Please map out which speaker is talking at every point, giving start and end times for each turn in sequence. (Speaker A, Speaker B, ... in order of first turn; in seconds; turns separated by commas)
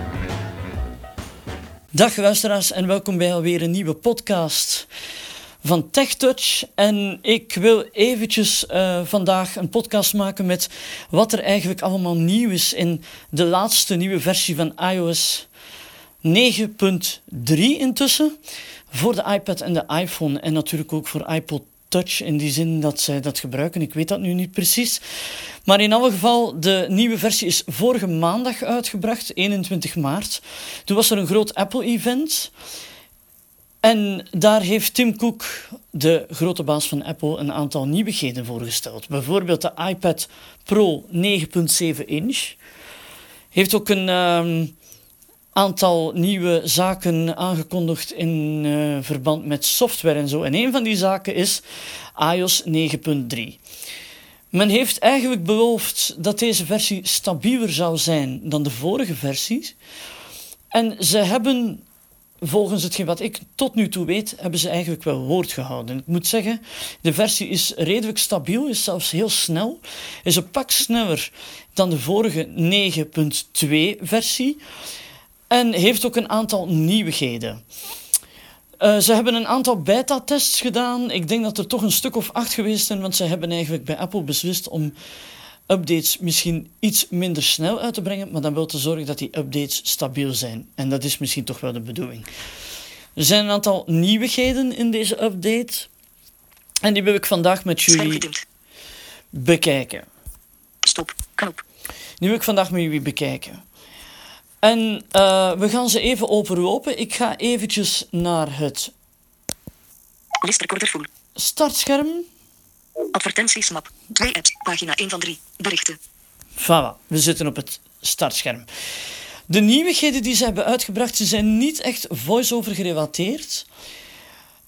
Speaker A: 1.9-4.9, Speaker A: 5.6-15.5, Speaker A: 16.2-18.4, Speaker A: 18.9-25.0, Speaker A: 25.7-32.5, Speaker A: 33.8-42.6, Speaker A: 43.5-44.7, Speaker A: 45.5-51.6, Speaker A: 52.2-53.6, Speaker A: 54.5-59.8, Speaker A: 60.7-61.8, Speaker A: 62.4-74.6, Speaker A: 75.5-77.6, Speaker A: 78.8-85.0, Speaker A: 85.7-92.3, Speaker A: 93.2-95.9, Speaker A: 96.8-98.3, Speaker B: 97.9-98.5, Speaker A: 99.3-100.1, Speaker B: 100.8-101.6, Speaker A: 102.2-103.6, Speaker A: 104.6-108.9, Speaker B: 110.4-111.1, Speaker A: 111.4-112.3, Speaker B: 113.1-116.0, Speaker A: 116.6-118.7, Speaker A: 119.5-123.7